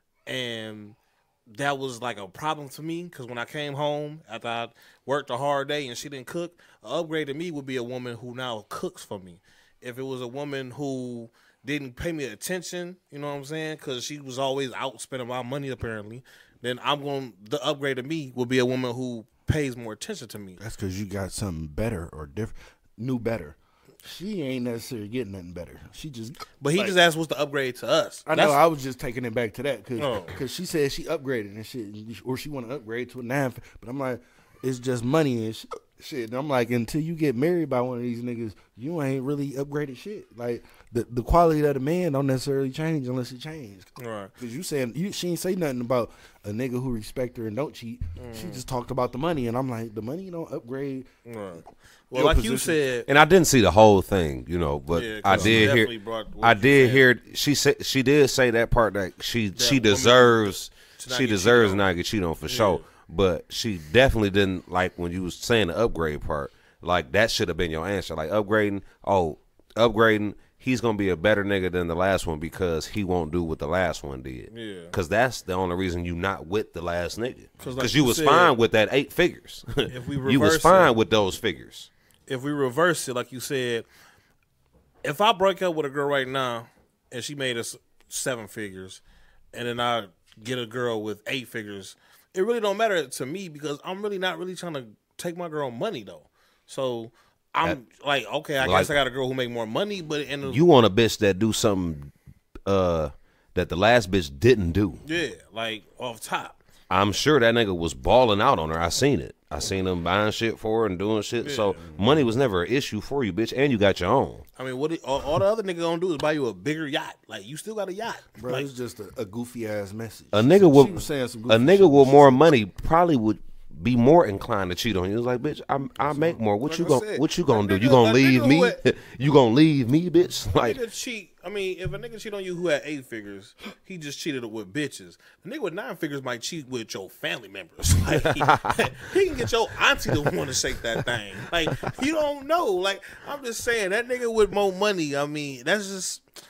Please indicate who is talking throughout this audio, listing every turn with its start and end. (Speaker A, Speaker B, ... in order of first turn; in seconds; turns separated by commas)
Speaker A: 0.3-20.6, Speaker B: 20.6-27.0, Speaker A: 26.6-28.6, Speaker B: 28.3-51.1, Speaker A: 30.0-30.4, Speaker A: 44.0-44.3, Speaker A: 48.2-48.6, Speaker A: 51.3-53.1, Speaker B: 52.1-52.8, Speaker C: 53.1-81.9, Speaker A: 54.9-57.1, Speaker B: 55.3-55.8, Speaker A: 59.5-61.9, Speaker A: 62.5-62.8, Speaker A: 74.5-74.9, Speaker A: 77.6-78.5, Speaker A: 79.9-80.9, Speaker A: 82.3-83.9, Speaker A: 85.0-89.0, Speaker A: 89.5-100.6, Speaker C: 98.6-98.9, Speaker C: 100.5-102.1, Speaker C: 102.7-105.0, Speaker A: 105.0-106.6, Speaker C: 106.9-114.5, Speaker A: 111.4-111.8, Speaker B: 111.8-112.1, Speaker A: 114.6-118.7, Speaker B: 118.4-122.5, Speaker C: 120.3-130.8, Speaker B: 126.0-126.4, Speaker A: 126.6-128.8, Speaker A: 130.5-146.2, Speaker C: 138.1-138.9